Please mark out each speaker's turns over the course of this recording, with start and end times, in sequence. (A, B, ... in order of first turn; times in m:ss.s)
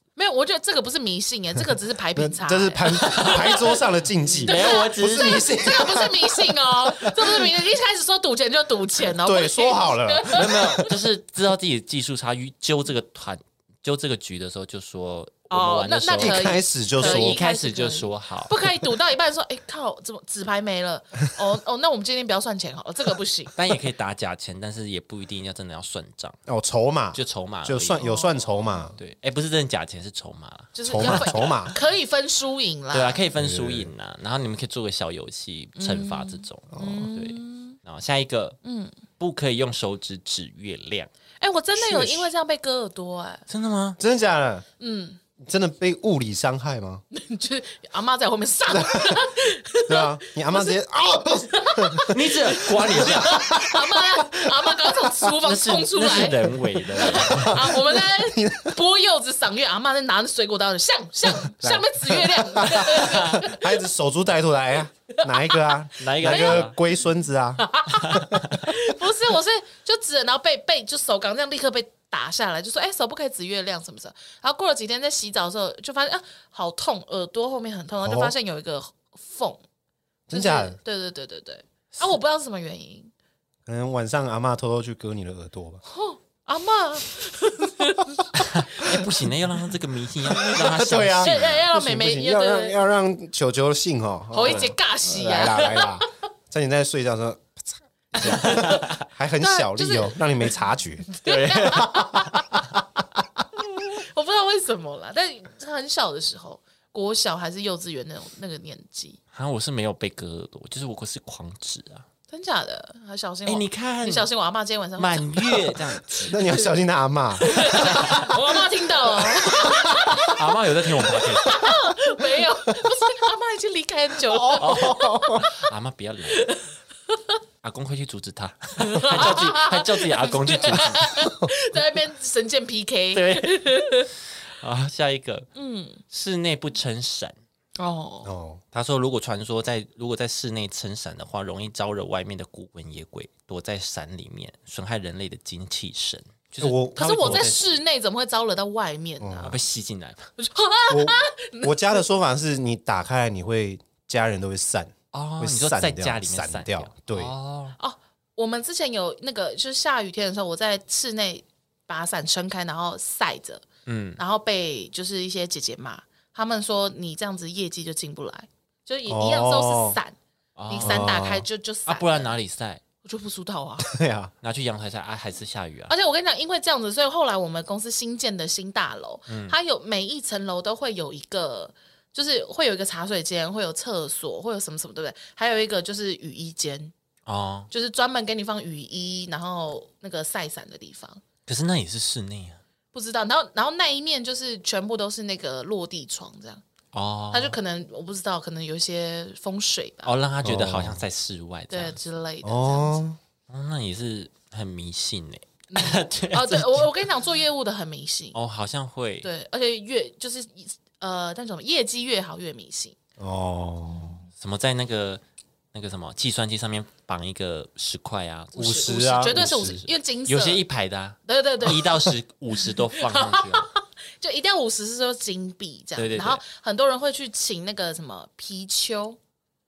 0:00.2-0:03.8 A
0:02.2-0:07.6 B
0:03.0-0:03.8 C
0:04.3-0:05.5 C
0:04.4-0:10.9 A
0:09.1-0:10.8 B
0:10.3-0:18.7 C
0:15.5-0:23.6 A
0:16.2-0:17.4 B
0:23.6-0:26.4 C
0:26.5-0:29.0 B
0:27.1-0:28.1 C
0:28.0-0:28.8 A
0:29.0-0:31.8 C
0:30.8-0:33.2 A
0:30.9-0:31.8 B
0:32.9-0:38.6 C
0:33.4-0:33.9 B
0:35.8-0:37.8 A
0:36.7-0:37.1 B
0:38.6-0:39.0 A
0:39.2-0:41.1 C
0:41.4-0:43.4 A
0:41.8-0:42.3 B
0:43.5-0:44.0 C
0:44.0-0:44.6 B
0:44.8-0:45.2 A
0:45.4-0:47.0 B
0:47.1-1:03.8 A
0:48.7-0:49.3 B
0:49.9-0:52.1 B
0:52.1-0:53.4 C
0:52.7-0:55.1 B
0:55.4-0:57.7 C
0:57.0-0:58.8 B
1:01.3-1:08.4 B
1:02.8-1:03.4 C
1:05.1-1:06.8 A
1:06.0-1:06.8 C
1:07.6-1:19.6 A
1:08.1-1:08.6 C
1:18.0-1:18.3 B
1:20.3-1:20.8 B
1:20.3-1:23.1 A
1:23.6-1:25.8 B
1:25.9-1:29.0 A
1:28.4-1:31.6 C
1:30.3-1:41.0 B
1:31.2-1:32.8 A
1:34.3-1:36.1 A
1:34.4-1:34.7 C
1:38.2-1:39.0 C
1:38.2-1:38.9 A
1:39.4-1:40.5 A
1:41.1-1:42.7 A
1:41.2-1:42.8 C
1:43.6-1:49.2 A
1:49.3-1:52.1 C
1:52.3-1:56.5 A
1:53.4-1:54.3 C
1:55.0-1:56.6 C
1:56.3-1:58.4 B
1:57.4-2:00.4 A
1:57.7-1:58.3 C
1:59.2-2:00.3 B
2:00.2-2:01.8 C
2:01.0-2:05.7 A
2:04.3-2:05.5 B
2:04.6-2:06.5 C
2:06.3-2:06.6 A
2:07.6-2:11.1 C
2:08.8-2:14.1 A
2:13.1-2:14.1 C
2:14.6-2:15.5 C
2:15.5-2:16.0 A
2:16.1-2:17.3 C
2:17.8-2:18.3 A
2:18.2-2:18.6 B
2:18.7-2:27.7 C
2:26.6-2:27.5 B
2:27.0-2:29.6 A
2:29.2-2:29.6 B
2:29.4-2:30.3 C
2:30.4-2:32.0 A
2:30.9-2:37.3 B
2:35.1-2:37.8 C
2:37.8-2:43.6 A
2:43.9-2:44.2 C
2:44.2-2:50.2 A
2:49.1-2:50.0 B
2:50.6-2:51.2 C
2:50.7-2:52.3 A
2:50.8-2:51.4 B
2:51.9-2:52.8 C
2:53.0-2:53.9 A
2:53.8-2:54.3 B
2:54.4-2:55.9 C
2:55.9-3:06.9 A
2:59.3-2:59.6 C
3:07.2-3:07.7 C
3:07.7-3:11.2 A
3:11.4-3:12.6 C
3:12.9-3:16.6 A
3:16.9-3:17.6 C
3:17.3-3:20.1 A
3:20.0-3:22.0 C
3:20.4-3:21.0 B
3:21.7-3:23.0 A
3:22.4-3:23.2 B
3:23.5-3:26.9 C
3:25.7-3:28.4 A
3:28.3-3:29.3 C
3:29.2-3:33.0 A
3:33.2-3:34.2 B
3:34.4-3:35.2 C
3:35.7-3:43.7 C
3:38.5-3:40.6 A
3:38.6-3:39.8 B
3:41.2-3:49.2 A
3:46.0-3:46.4 C